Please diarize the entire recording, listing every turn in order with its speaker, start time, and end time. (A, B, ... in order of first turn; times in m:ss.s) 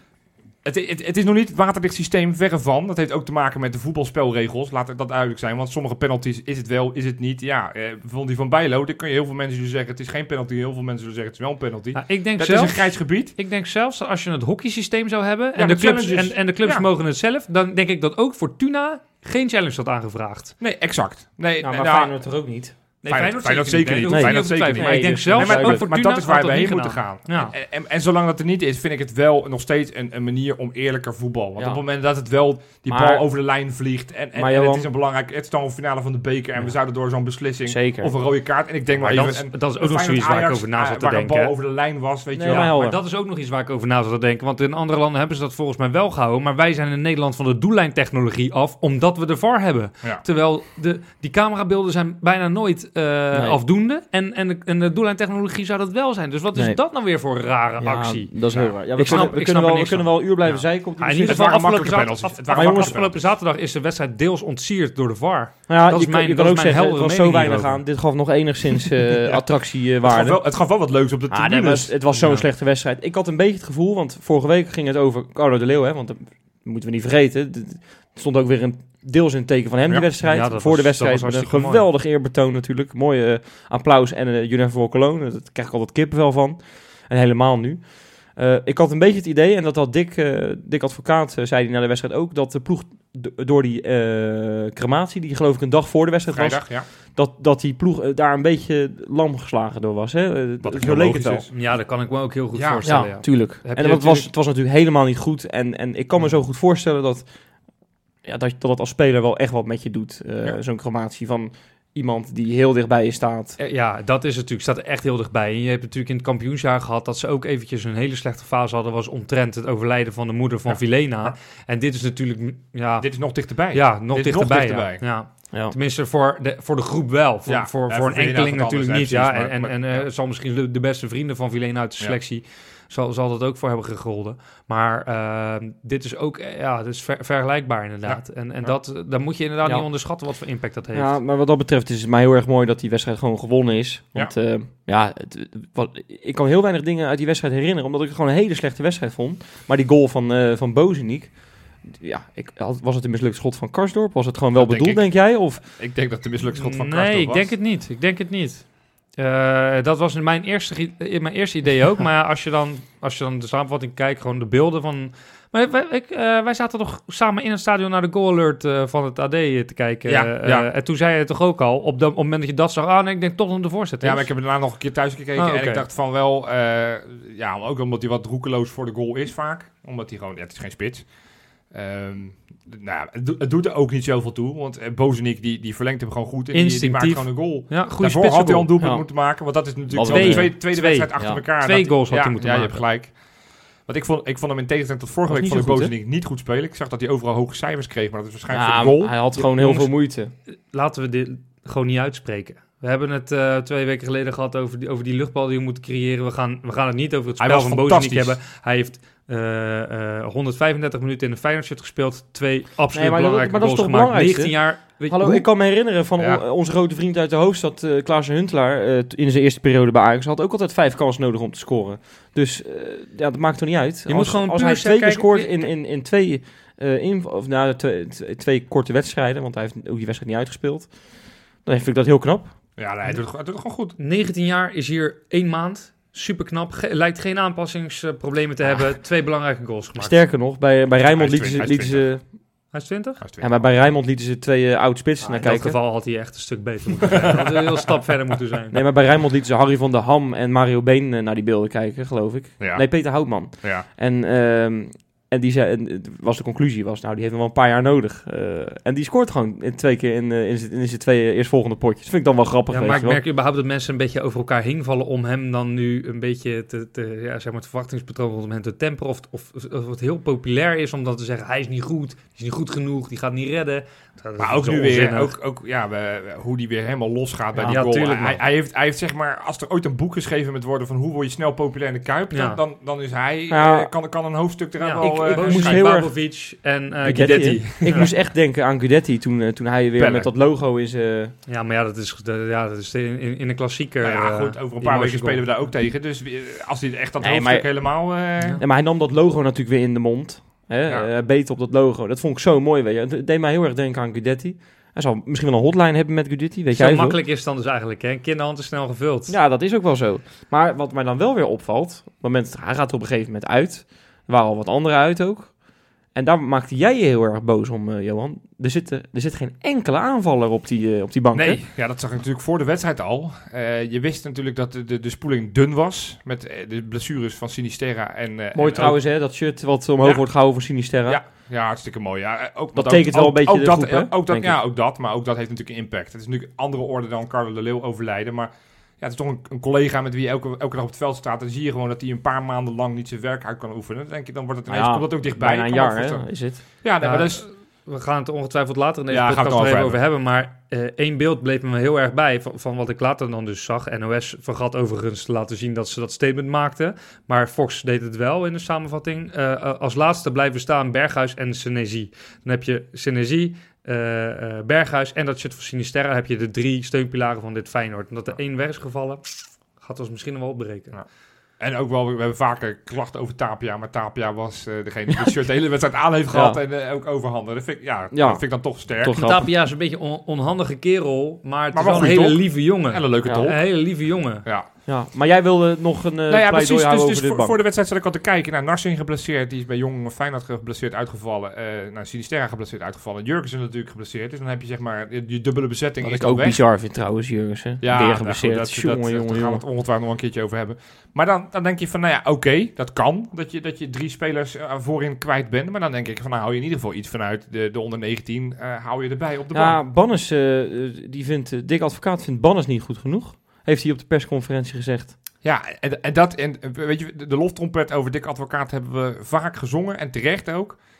0:00.6-0:13.3 A
0:11.9-0:20.5 B
0:15.6-0:16.9 A
0:20.6-0:22.1 A
0:21.6-0:22.7 C
0:23.0-0:27.5 B
0:23.0-0:42.7 A
0:24.0-0:25.9 C
0:31.6-0:31.8 C
0:32.8-0:33.2 C
0:34.3-0:34.9 C
0:37.6-0:38.1 C
0:39.0-0:41.5 B
0:42.3-0:43.0 C
0:42.4-1:07.8 B
0:53.3-0:53.6 C
0:57.8-1:01.8 C
0:58.5-0:59.3 A
1:01.2-1:03.1 A
1:02.5-1:03.1 C
1:05.7-1:10.4 C
1:10.0-1:12.2 A
1:11.3-1:41.4 C
1:12.1-1:12.4 B
1:20.2-1:21.8 B
1:36.3-1:36.9 A
1:40.6-1:41.6 A
1:41.5-1:44.3 B
1:42.5-1:43.1 A
1:42.8-1:47.3 C
1:48.2-1:53.6 C
1:53.6-2:03.1 B
2:00.7-2:01.3 A
2:03.0-2:05.1 A
2:03.7-2:21.1 B
2:07.4-2:10.1 A
2:18.0-2:18.8 A
2:20.9-2:35.6 C
2:34.5-2:37.5 A
2:36.6-2:54.3 B
2:50.1-2:50.7 A
2:54.0-3:01.1 A
2:55.4-2:55.8 B
3:01.7-3:19.1 A
3:06.5-3:08.7 B
3:08.8-3:09.0 C
3:09.9-3:10.6 C
3:10.1-3:12.8 B
3:15.3-3:15.9 C
3:18.5-3:20.3 C
3:19.4-3:19.9 B
3:20.4-3:35.4 B
3:27.4-3:28.3 A
3:32.9-3:51.0 C
3:36.2-3:36.4 A
3:44.1-3:45.6 B
3:51.6-3:52.5 C
3:52.8-3:54.0 A
3:54.0-4:00.2 B
4:00.0-4:02.3 C
4:01.1-4:02.2 A
4:02.7-4:03.2 B
4:03.2-4:03.8 A
4:03.4-4:05.8 C
4:05.2-4:08.8 B
4:07.1-4:07.5 A
4:08.7-4:23.2 C
4:12.6-4:13.8 A
4:22.7-4:35.3 B
4:34.4-4:46.0 A
4:37.5-4:37.8 C
4:37.7-4:38.4 B
4:42.3-4:42.6 B
4:43.5-4:43.9 C
4:44.8-4:48.1 B
4:44.9-4:46.1 C
4:47.0-4:51.3 C
4:47.2-4:48.1 A
4:50.0-4:50.3 A
4:51.5-4:55.7 B
4:54.0-4:58.6 A
4:57.2-4:58.0 C
4:58.6-5:07.2 C
5:06.7-5:09.4 B
5:09.3-5:21.6 C
5:21.3-5:29.0 A
5:28.5-5:31.2 C
5:30.0-5:30.3 A
5:31.1-5:47.5 A
5:32.7-5:34.5 C
5:44.7-5:46.6 C
5:47.0-6:10.9 B
5:49.1-5:50.0 A
6:11.6-6:19.2 A
6:16.3-6:16.6 C
6:18.1-6:19.5 C
6:19.1-6:24.4 B
6:21.7-6:24.7 A
6:23.2-6:23.5 C
6:24.9-6:27.6 C
6:26.3-6:36.6 A
6:36.0-6:39.6 C
6:37.8-6:49.8 A
6:49.5-6:55.1 C
6:55.4-7:00.8 A